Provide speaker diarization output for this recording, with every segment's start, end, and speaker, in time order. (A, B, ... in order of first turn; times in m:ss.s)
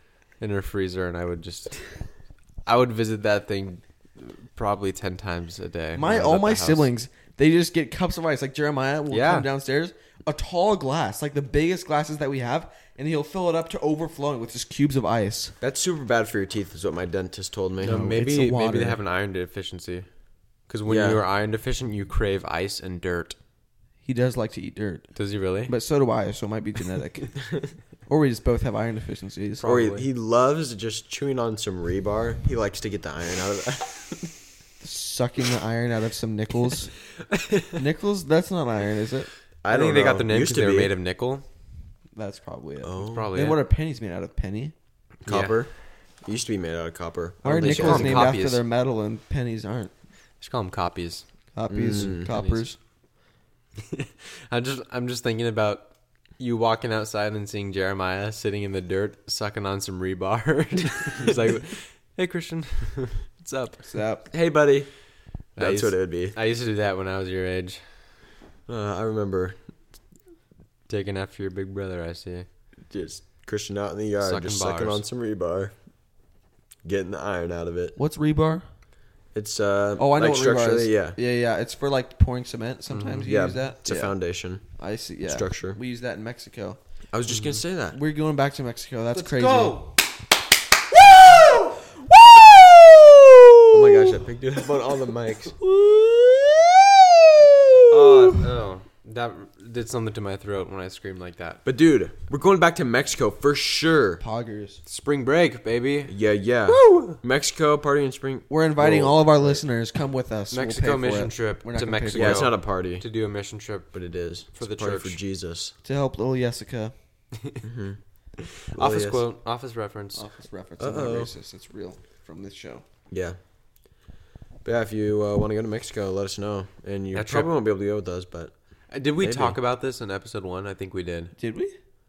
0:00.4-0:01.9 A
0:02.6-0:06.9 A
0:05.9-0:15.6 B
0:09.1-0:09.5 A
0:15.6-0:18.2 C
0:17.8-0:20.1 A
0:17.8-0:19.0 B
0:20.7-0:23.4 A
0:20.8-0:21.2 C
0:24.0-0:25.1 B
0:25.1-0:25.7 A
0:25.6-0:27.5 B
0:28.0-0:29.7 B
0:29.6-0:30.0 A
0:29.6-0:34.3 C
0:34.8-0:37.0 B
0:37.3-0:37.8 A
0:37.7-0:39.3 B
0:39.6-0:40.9 C
0:39.7-0:41.4 A
0:42.1-0:44.7 B
0:42.8-0:43.3 C
0:43.0-0:43.6 A
0:45.2-0:45.6 A
0:45.2-0:48.3 C
0:47.4-0:49.9 B
0:47.6-0:48.6 A
0:50.4-0:51.2 A
0:51.5-0:52.8 B
0:51.7-0:52.3 C
0:52.3-0:52.6 A
0:53.8-1:03.9 A
1:03.8-1:04.3 B
1:04.3-1:05.0 C
1:05.6-1:06.4 C
1:05.6-1:08.0 A
1:08.7-1:09.6 C
1:10.9-1:12.4 A
1:12.9-1:15.7 C
1:14.2-1:15.0 A
1:16.8-1:17.9 C
1:18.0-1:18.6 B
1:19.3-1:21.2 C
1:20.0-1:24.2 B
1:22.9-1:23.3 A
1:23.2-1:24.7 C
1:24.7-1:26.8 B
1:25.2-1:25.8 C
1:27.1-1:28.0 C
1:27.3-1:27.6 A
1:27.9-1:29.9 B
1:29.1-1:30.0 A
1:31.0-1:33.9 B
1:33.7-1:35.6 C
1:35.6-1:38.4 B
1:37.9-1:41.6 A
1:41.6-1:44.2 C
1:44.2-1:44.8 B
1:44.8-1:46.2 A
1:46.1-1:49.6 C
1:46.7-1:47.2 A
1:48.5-1:52.5 B
1:50.5-1:55.2 A
1:52.1-1:53.0 C
1:53.9-1:55.7 C
1:55.8-1:56.9 B
1:57.6-1:58.0 C
1:58.7-2:00.3 A
1:58.7-1:59.2 C
2:00.1-2:02.8 B
2:00.8-2:01.3 C
2:03.1-2:03.4 C
2:04.6-2:08.6 C
2:07.1-2:07.5 A
2:08.9-2:11.3 A
2:09.2-2:09.6 C
2:11.4-2:11.7 B